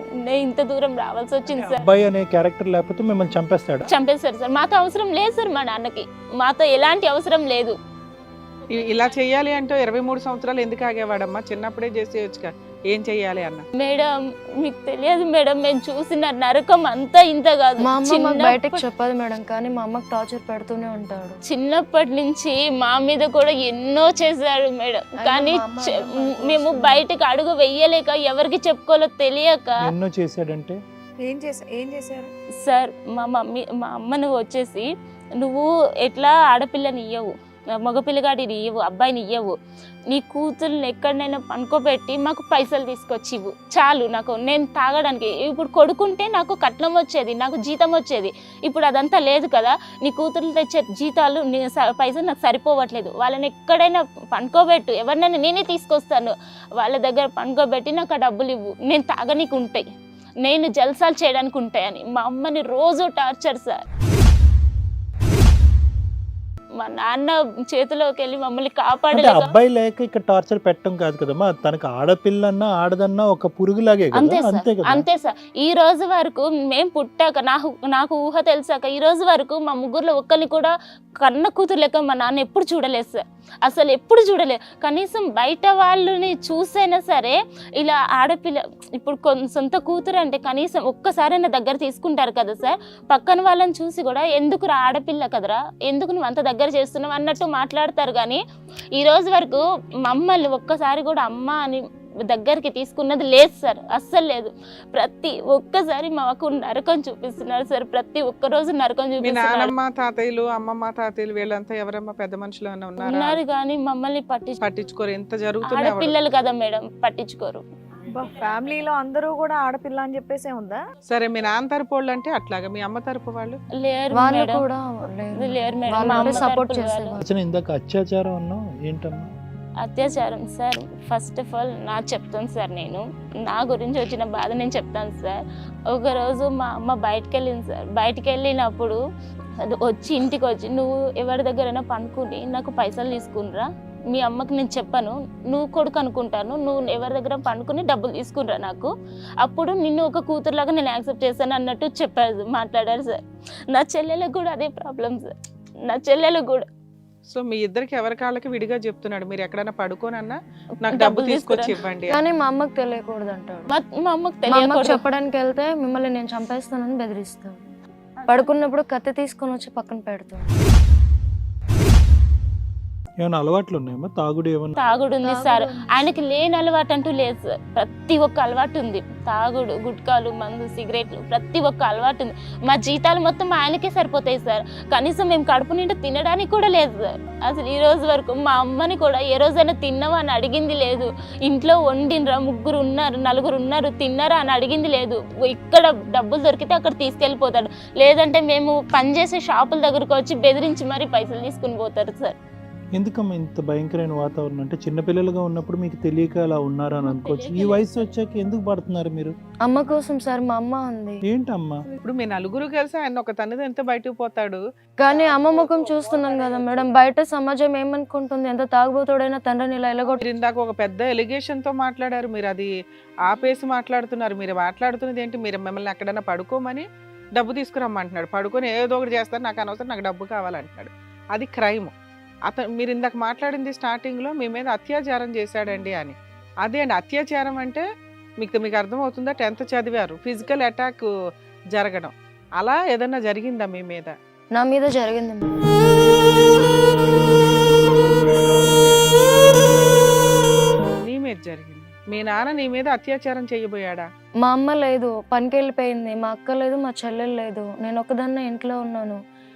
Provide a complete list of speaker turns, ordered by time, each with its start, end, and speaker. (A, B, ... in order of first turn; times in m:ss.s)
0:00.2-0:01.8 A
0:01.5-0:03.9 B
0:03.8-0:07.8 A
0:08.7-0:13.6 C
0:13.8-0:18.8 A
0:17.8-0:21.4 D
0:21.4-0:29.7 A
0:25.2-0:27.0 D
0:29.8-0:30.8 B
0:31.2-0:32.3 E
0:32.6-0:34.9 A
0:35.4-0:39.5 A
0:40.1-0:59.8 A
1:00.4-1:03.8 A
1:06.8-1:09.5 A
1:09.1-1:15.0 B
1:14.1-1:38.4 A
1:38.9-1:49.7 A
1:49.2-1:53.4 C
1:53.0-1:54.6 A
1:54.6-1:56.1 C
1:55.7-1:57.6 A
1:58.1-2:00.8 E
2:01.1-2:03.6 C
2:03.8-2:04.6 A
2:04.1-2:07.2 D
2:05.4-2:07.2 A
2:07.2-2:09.3 B
2:09.8-2:19.0 A
2:19.7-2:28.9 A
2:29.4-2:33.2 A
2:33.7-2:35.3 A
2:35.8-2:36.6 A
2:37.3-2:42.1 C
2:40.9-2:41.7 A
2:42.1-2:43.7 D
2:43.7-2:45.0 A
2:44.5-2:47.6 D
2:48.2-2:48.5 C
2:48.3-2:50.5 D
2:53.2-2:54.7 B
2:54.8-3:22.4 A
2:55.2-2:56.2 D
3:22.9-3:29.3 B
3:27.0-3:28.0 A
3:29.7-3:31.2 D
3:31.2-3:31.8 B
3:32.0-3:34.6 C
3:35.0-3:40.2 D
3:35.1-3:36.8 E
3:40.2-3:42.7 C
3:43.2-3:51.9 C
3:52.4-3:57.8 C
3:58.4-4:01.1 C
4:01.7-4:04.1 C
4:04.6-4:05.6 D
4:11.0-4:14.1 C
4:14.4-4:19.2 D